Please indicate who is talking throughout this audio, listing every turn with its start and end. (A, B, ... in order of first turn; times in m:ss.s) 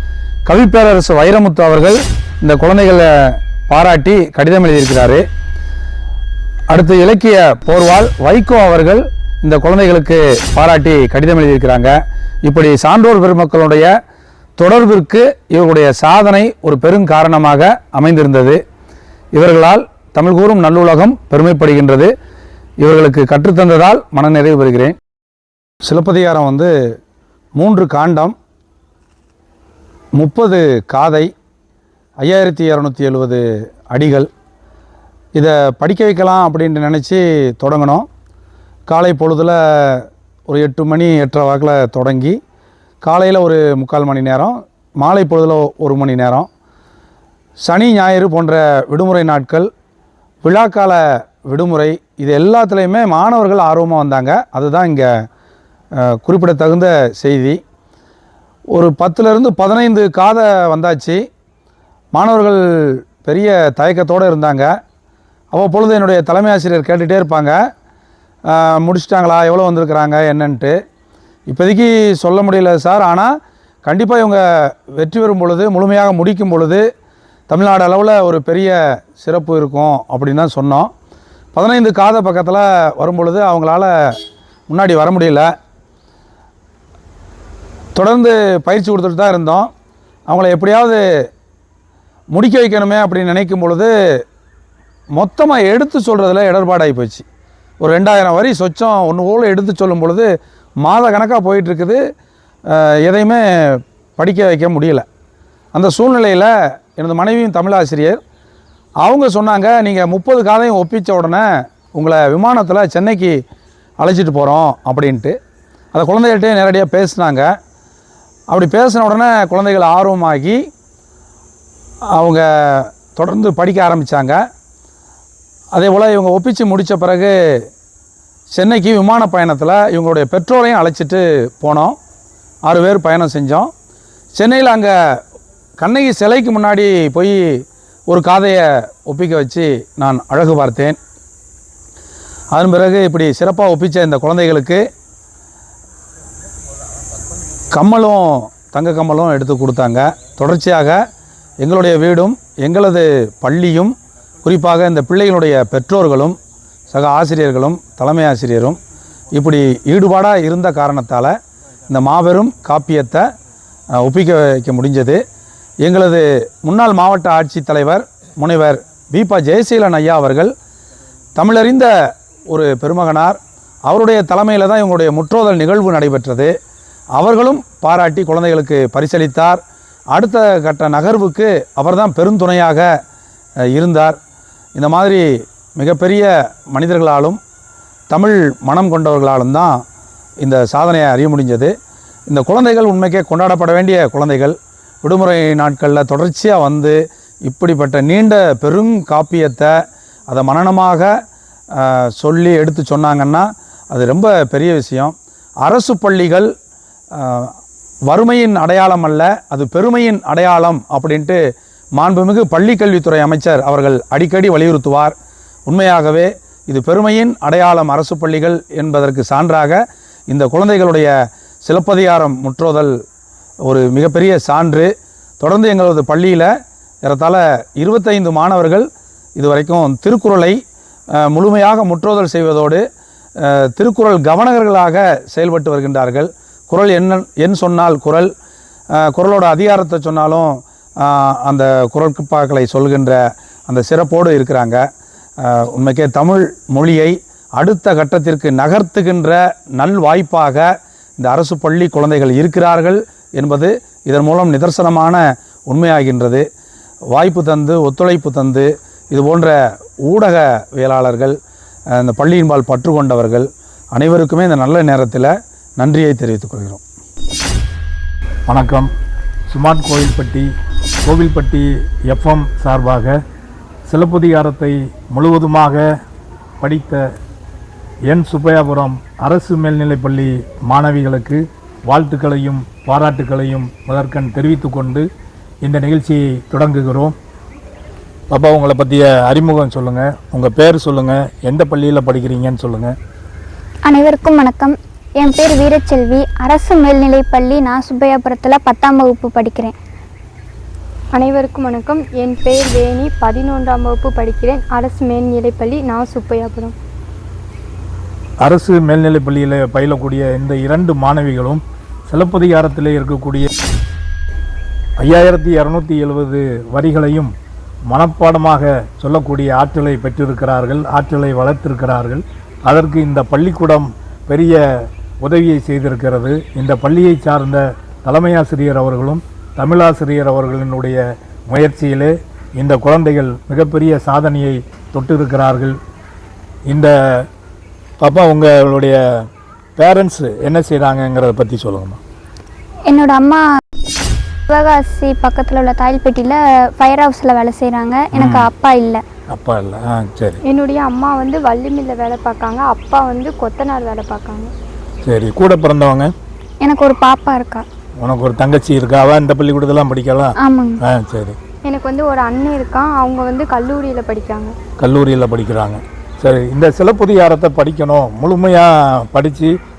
0:00.5-0:05.2 A
0:06.7-0:13.9 A
0:14.6-0:18.6 A
0:19.3-0:22.1 A
0:22.8-0:25.0 A
0:25.8-0:26.7 A
0:27.6-0:28.4 A
0:30.2-0:31.3 A
0:32.2-0:34.3 A
0:35.4-0:38.1 A
0:38.9-0:42.4 A
0:43.0-0:46.5 A
0:47.6-0:49.7 A
0:50.4-0:55.1 A
0:56.1-0:57.6 A
0:58.7-1:01.2 A
1:02.1-1:04.7 A
1:05.5-1:07.6 A
1:08.5-1:10.7 A
1:11.5-1:13.3 A
1:13.8-1:16.8 A
1:17.5-1:20.9 A
1:21.6-1:23.9 A
1:24.7-1:25.5 A
1:28.0-1:29.7 A
1:30.3-1:31.0 A
1:32.3-1:33.9 A
1:35.2-1:37.2 A
1:37.8-1:40.3 A
1:40.8-1:42.0 A
1:42.7-1:45.1 A
1:45.7-1:48.2 A
1:49.0-1:53.4 A
1:54.0-1:55.4 A
1:55.9-1:57.5 A
1:58.5-2:00.6 A
2:02.1-2:04.4 A
2:05.7-2:07.3 A
2:08.5-2:12.0 A
2:12.7-2:13.7 A
2:14.4-2:15.0 A
2:15.8-2:17.4 A
2:18.1-2:21.0 A
2:22.5-2:24.8 A
2:27.7-2:31.0 A
2:31.6-2:36.4 A
2:36.9-2:38.8 A
2:39.3-2:41.4 A
2:41.9-2:43.2 A
2:44.0-2:45.2 A
2:45.8-2:50.5 A
2:51.4-2:51.9 A
2:52.5-2:56.5 A
2:57.2-2:59.6 A
3:00.1-3:02.9 A
3:03.7-3:04.2 A
3:04.8-3:05.2 A
3:05.8-3:07.4 A
3:08.1-3:09.8 A
3:10.4-3:11.7 A
3:12.3-3:19.7 A
3:20.3-3:21.1 A
3:21.8-3:26.5 A
3:27.2-3:27.5 A
3:28.1-3:31.4 A
3:32.0-3:35.2 A
3:35.7-3:41.1 A
3:41.6-3:42.9 A
3:43.7-3:46.5 A
3:47.0-3:50.6 A
3:51.2-3:52.8 A
3:53.4-3:58.3 A
3:59.0-4:04.8 A
4:05.4-4:10.7 A
4:11.2-4:16.4 A
4:17.1-4:19.6 A
4:20.1-4:21.4 A
4:22.0-4:26.8 A
4:28.5-4:28.9 B
4:29.5-4:30.5 B
4:31.0-4:33.1 B
4:33.9-4:35.8 B
4:36.6-4:37.0 B
4:38.1-4:45.0 B
4:45.6-4:47.2 B
4:48.3-4:52.9 B
4:53.8-4:59.8 C
5:01.2-5:06.7 D
5:08.4-5:13.5 B
5:15.0-5:17.3 B
5:17.9-5:24.6 B
5:25.2-5:35.8 B
5:38.0-5:39.0 B
5:39.8-5:42.0 B
5:42.9-5:43.4 C
5:44.5-5:49.0 C
5:48.1-5:48.5 B
5:49.3-5:50.4 B
5:50.5-5:54.5 D
5:55.0-5:56.1 B
5:56.6-5:57.6 C
5:58.0-6:01.4 B
6:00.4-6:00.8 C
6:01.7-6:04.5 D
6:04.8-6:09.5 B